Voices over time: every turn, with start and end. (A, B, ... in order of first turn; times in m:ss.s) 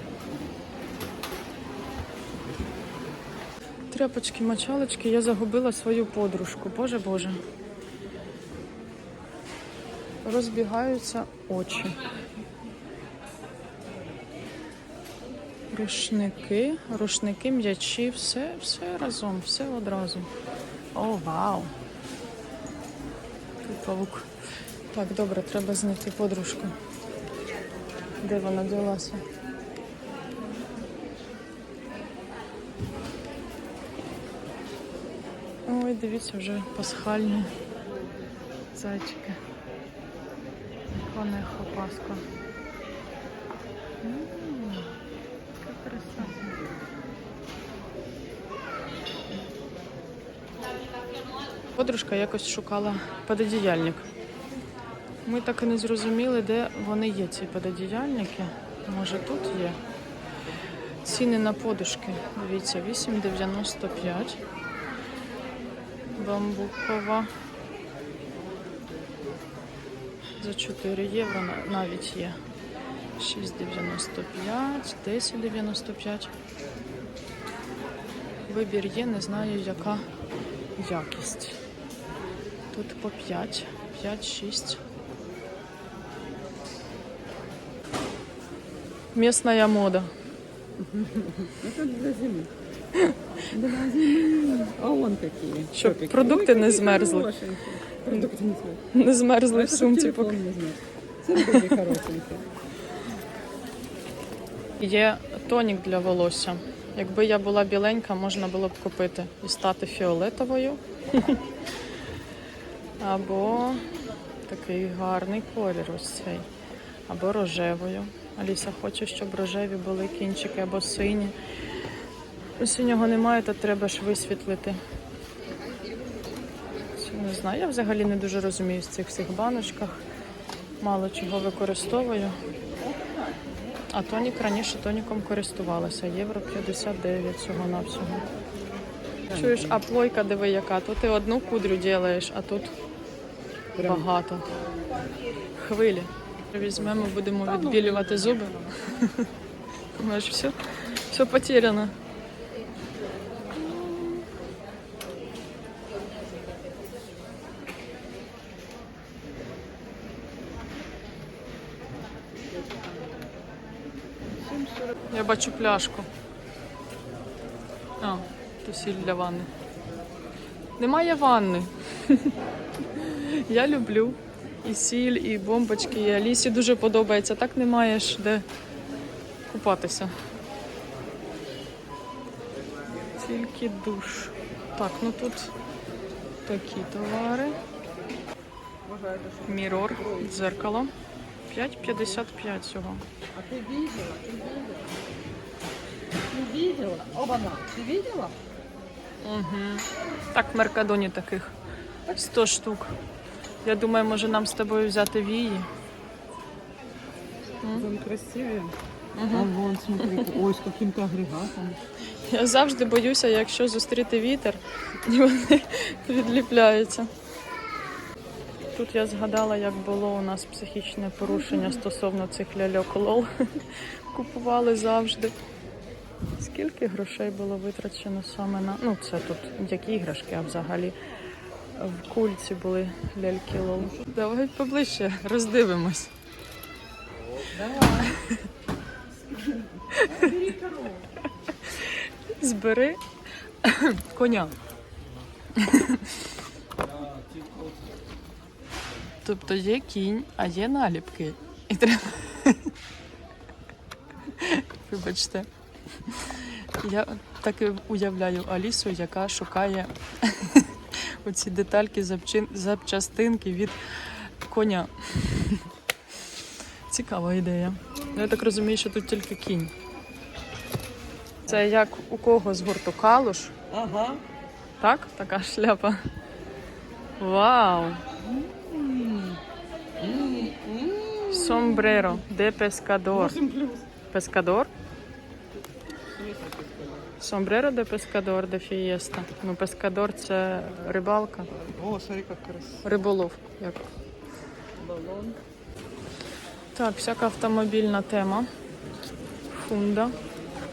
0:03.9-0:07.4 A
0:10.2-0:12.0 A
0:15.7-0:20.3 A
0:20.9-0:21.7 A
0:23.6-0:24.3 A
0:24.9-0:26.7 A
0:28.2-0:29.2 A
0:35.7-0:37.5 A
0:38.7-0:39.4 A
0:40.9-0:42.2 A
0:44.0-0:44.9 A
0:45.6-0:46.6 A
0:51.7-0:54.1 A
0:55.2-0:59.8 A
1:01.0-1:04.4 A
1:06.2-1:07.3 A
1:10.4-1:12.4 A
1:13.2-1:16.3 A
1:18.5-1:20.1 A
1:20.8-1:21.6 A
1:22.7-1:24.8 A
1:29.1-1:30.1 A
1:30.9-1:32.5 B
1:33.5-1:38.8 B
1:35.7-1:37.3 A
1:38.9-1:40.4 A
1:39.5-1:42.5 B
1:44.8-1:51.4 A
1:53.0-1:53.9 A
1:54.5-1:56.5 A
1:57.1-2:01.3 A
2:02.6-2:04.8 A
2:06.9-2:10.0 A
2:10.8-2:12.4 A
2:13.9-2:18.3 A
2:19.3-2:19.6 B
2:19.3-2:22.7 A
2:23.8-2:24.0 B
2:23.8-2:24.5 A
2:25.5-2:29.3 A
2:27.6-2:28.5 B
2:29.9-2:31.9 A
2:33.6-2:34.2 B
2:45.1-2:46.1 A
2:48.0-2:49.5 A
2:50.8-2:52.3 A
2:52.9-2:58.4 A
2:59.5-3:00.1 A
3:03.2-3:05.5 A
3:06.4-3:07.6 A
3:08.8-3:10.5 B
3:09.4-3:10.9 A
3:11.5-3:13.0 A
3:13.3-3:15.0 B
3:16.3-3:18.4 B
3:19.2-3:21.5 A
3:22.1-3:23.0 A
3:23.6-3:25.7 A
3:27.7-3:28.7 B
3:29.1-3:29.5 A
3:29.3-3:31.8 B
3:32.2-3:37.1 A
3:38.7-3:45.3 A
3:46.4-3:51.0 A
3:51.7-3:56.1 A
3:57.6-3:58.1 B
3:57.9-3:58.4 A
3:59.5-4:01.0 B
3:59.9-4:00.4 A
4:01.6-4:03.0 A
4:03.6-4:04.5 A
4:05.6-4:06.2 A
4:09.2-4:12.7 A
4:14.3-4:15.5 A
4:16.0-4:25.7 A
4:26.9-4:29.7 A
4:31.4-4:33.6 A
4:33.7-4:34.2 B
4:34.8-4:36.0 A
4:37.2-4:38.0 A
4:38.2-4:39.4 B
4:40.0-4:42.2 B
4:41.3-4:43.4 A
4:43.1-4:43.8 B
4:44.1-4:44.7 A
4:46.1-4:47.1 B
4:47.2-4:51.5 A
4:51.5-4:52.8 B
4:52.8-4:53.9 A
4:54.8-4:55.4 B
4:56.7-4:58.5 A
4:59.5-5:00.2 A